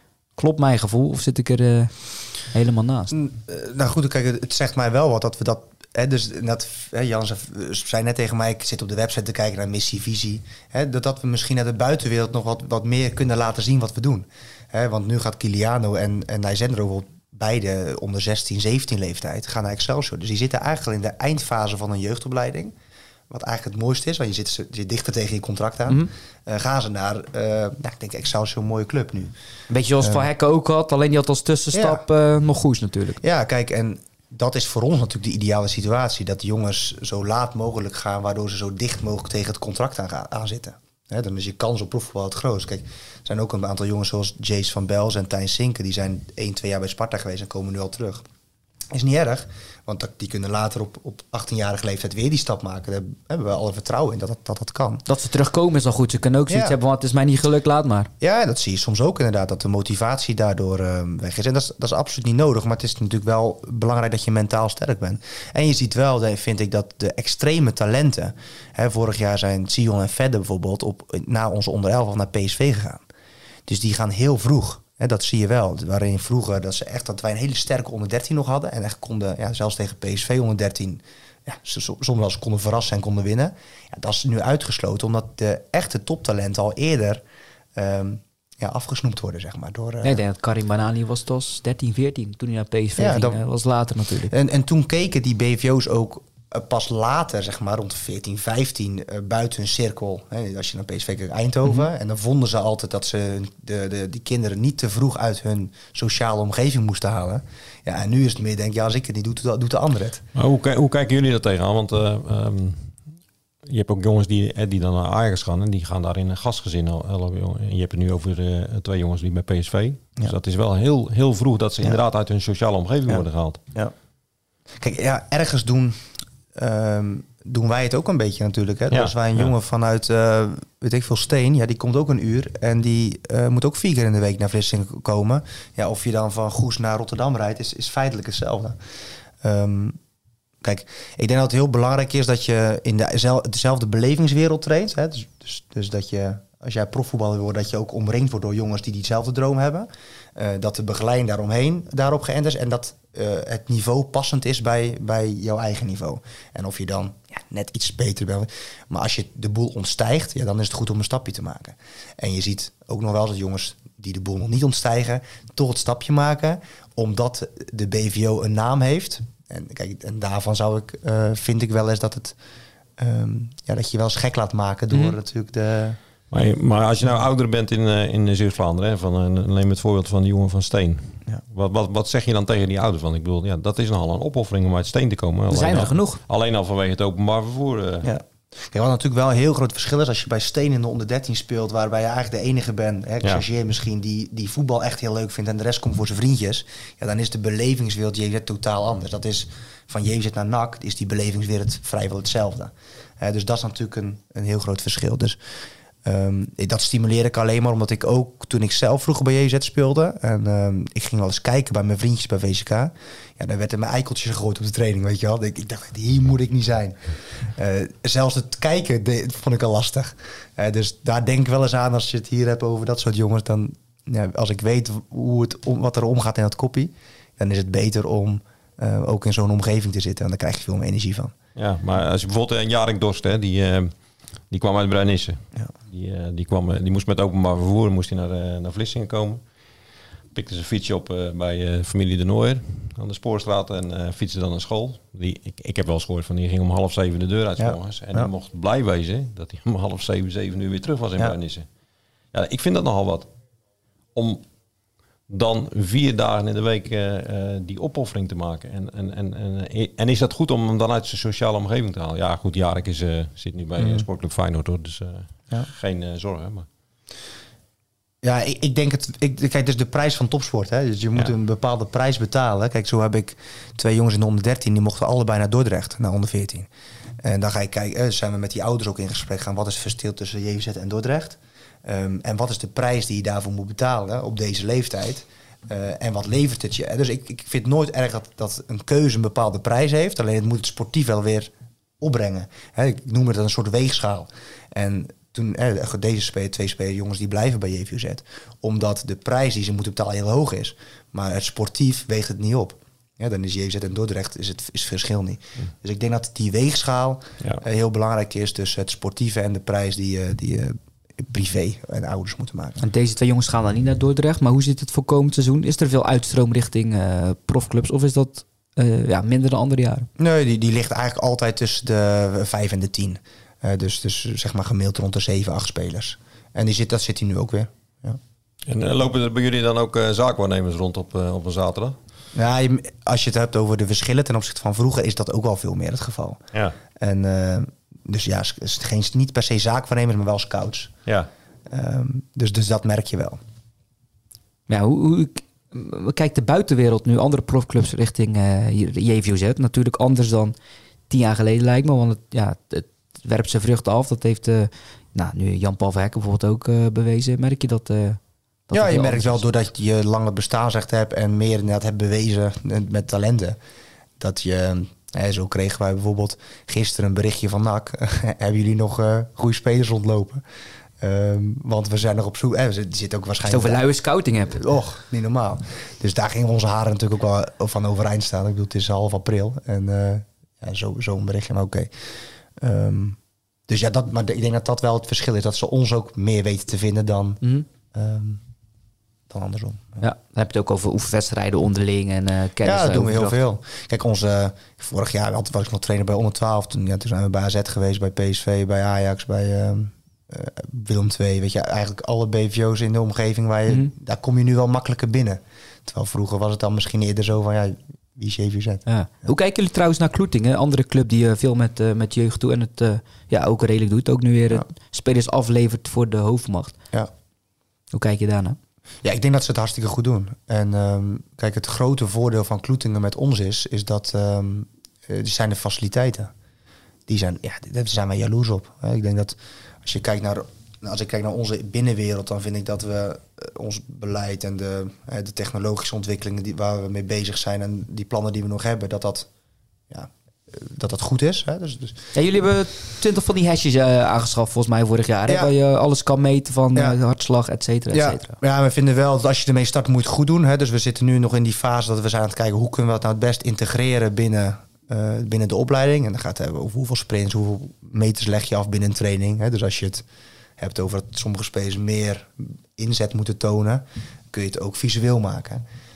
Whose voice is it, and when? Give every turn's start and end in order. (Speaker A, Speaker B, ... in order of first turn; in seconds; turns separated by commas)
Speaker A: 0.4-3.1, Speaker B: 3.1-22.7, Speaker B: 23.3-29.3, Speaker A: 29.7-33.2, Speaker B: 31.7-32.0, Speaker B: 33.2-48.2, Speaker B: 48.9-55.0, Speaker A: 55.1-58.1, Speaker B: 56.5-56.8, Speaker B: 58.2-73.0, Speaker B: 73.7-87.2, Speaker B: 87.8-90.2, Speaker A: 90.0-94.3, Speaker B: 93.0-93.4, Speaker B: 94.3-110.2, Speaker C: 110.3-113.0, Speaker C: 113.6-123.6, Speaker B: 123.1-123.9, Speaker B: 124.8-138.8, Speaker C: 128.9-129.5, Speaker B: 139.4-140.0, Speaker B: 140.6-172.3, Speaker B: 173.0-176.0, Speaker A: 174.9-175.2, Speaker C: 176.3-188.1, Speaker A: 185.5-186.2, Speaker B: 188.0-205.4, Speaker B: 206.0-217.0, Speaker B: 217.6-231.3, Speaker C: 231.6-233.9, Speaker C: 234.5-239.4, Speaker C: 240.3-251.7, Speaker B: 247.6-248.3, Speaker C: 252.3-253.3, Speaker C: 254.1-254.4, Speaker C: 255.3-266.7, Speaker B: 263.8-264.1, Speaker B: 268.2-276.7, Speaker B: 277.2-312.8, Speaker A: 312.8-320.1, Speaker B: 320.2-328.2, Speaker C: 328.6-332.0, Speaker B: 332.3-336.4, Speaker B: 337.0-340.9, Speaker B: 341.7-343.4, Speaker A: 344.7-350.5, Speaker A: 351.1-359.4, Speaker B: 358.7-363.6, Speaker B: 364.2-370.4, Speaker B: 371.0-373.8, Speaker A: 373.4-374.6, Speaker B: 374.5-381.9, Speaker B: 382.6-383.2, Speaker B: 383.7-387.4, Speaker B: 387.9-388.4, Speaker B: 389.3-390.1, Speaker A: 390.0-393.4, Speaker B: 392.6-409.3, Speaker A: 408.9-416.8, Speaker A: 417.9-418.6, Speaker B: 419.0-426.3, Speaker B: 427.1-439.3, Speaker B: 439.9-442.0, Speaker A: 442.1-448.4, Speaker B: 447.9-460.0, Speaker B: 460.6-465.6